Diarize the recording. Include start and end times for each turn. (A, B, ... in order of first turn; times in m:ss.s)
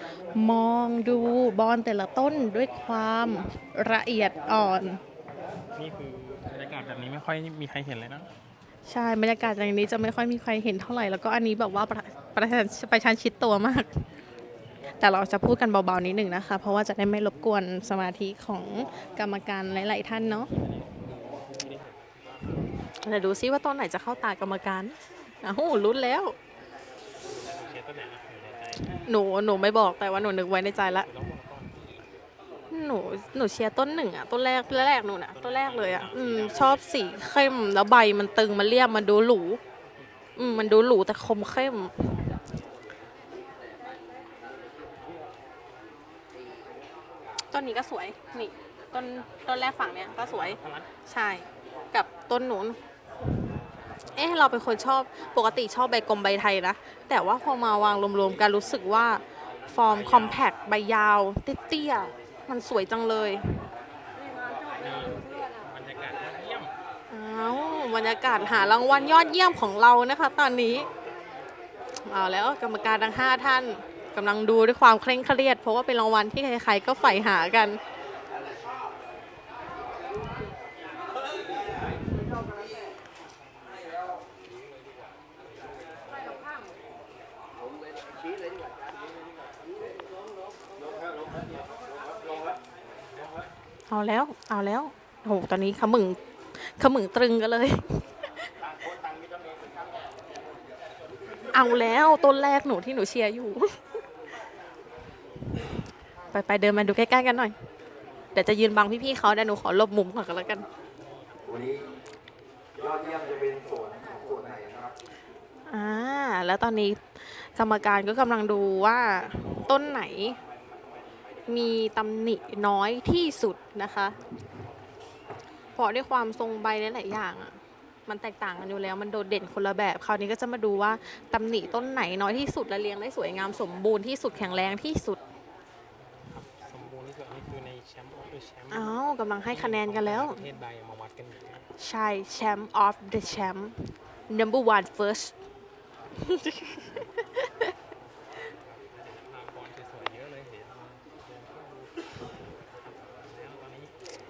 0:00.3-0:05.0 A
0:05.8-0:08.3 B
0:08.8-0:14.0 A
0:15.0-0:20.5 A
0:20.3-0:22.7 B
0:22.9-0:26.4 A
0:27.2-0:29.1 B
0:29.1-0:31.1 A
0:31.0-0:32.0 B
0:32.7-0:39.6 A
0:35.3-0:36.8 B
0:40.4-0:42.3 A
0:47.5-0:52.8 A
0:50.2-0:50.9 B
0:54.1-1:03.7 A
0:59.9-1:00.4 B
1:04.8-1:06.7 B
1:07.1-1:10.9 A
1:12.0-1:17.8 A
1:33.9-1:38.3 A
1:41.5-1:43.8 A
1:46.3-1:47.5 A
1:48.3-1:50.6 A
1:51.4-1:51.8 C
1:52.8-1:54.9 C
1:55.7-2:00.4 A
2:01.5-2:04.2 A
2:05.8-2:15.2 A
2:14.4-2:14.7 B
2:16.0-2:19.0 B
2:18.7-2:20.4 A
2:19.5-2:21.7 B
2:21.8-2:25.3 A
2:26.1-2:27.7 A
2:28.6-2:32.1 B
2:32.7-2:33.9 B